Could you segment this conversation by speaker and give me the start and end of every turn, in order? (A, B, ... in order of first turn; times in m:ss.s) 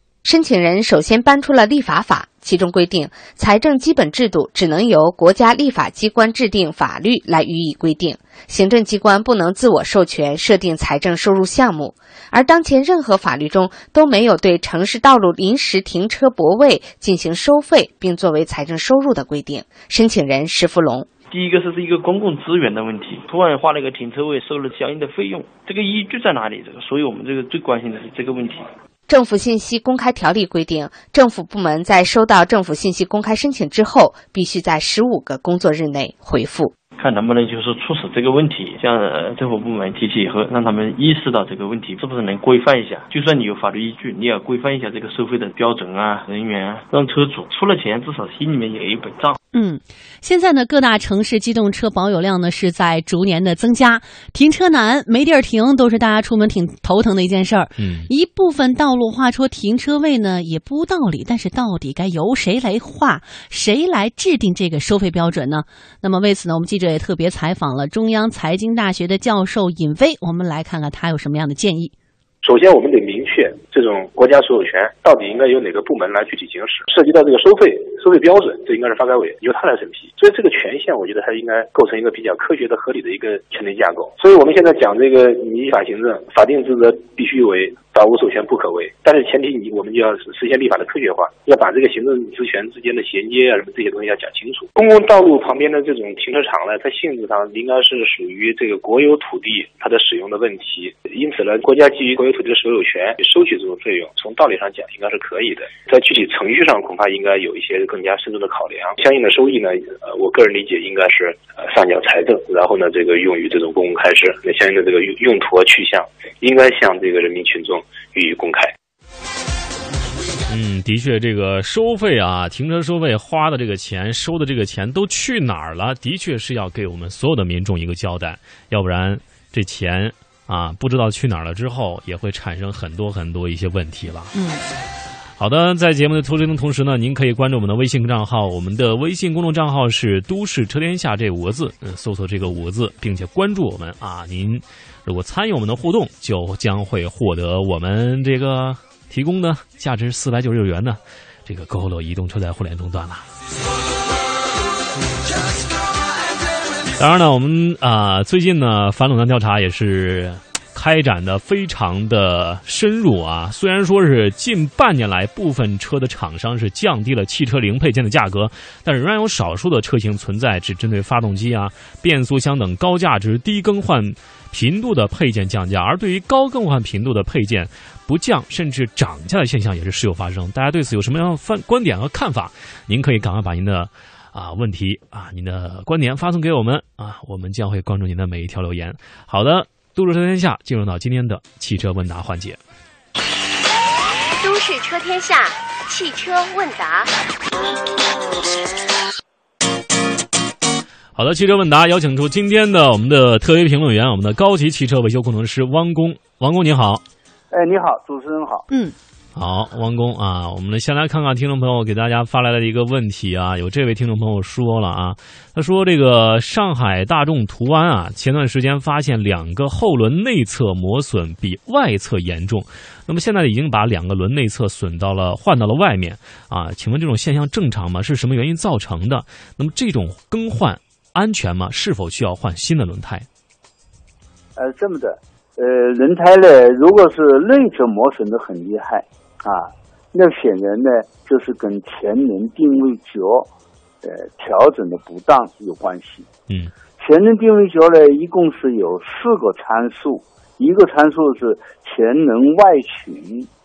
0:00.2-0:21.1 A
0:21.3-0:28.7 B
0:29.1-0:36.7 A
0:37.0-0:49.4 B
0:49.5-1:11.9 C
0:57.8-0:58.1 D
1:12.4-1:58.7 E
2:00.5-2:14.3 D
2:14.3-2:14.6 C
2:15.4-2:33.2 D
2:37.0-3:12.6 D
3:14.4-3:17.1 F
3:21.2-3:27.0 D
3:27.5-3:28.6 G
3:28.7-3:29.0 C
3:29.4-3:53.3 D
3:54.6-4:03.5 G
4:04.0-4:06.3 G
4:07.0-4:13.5 G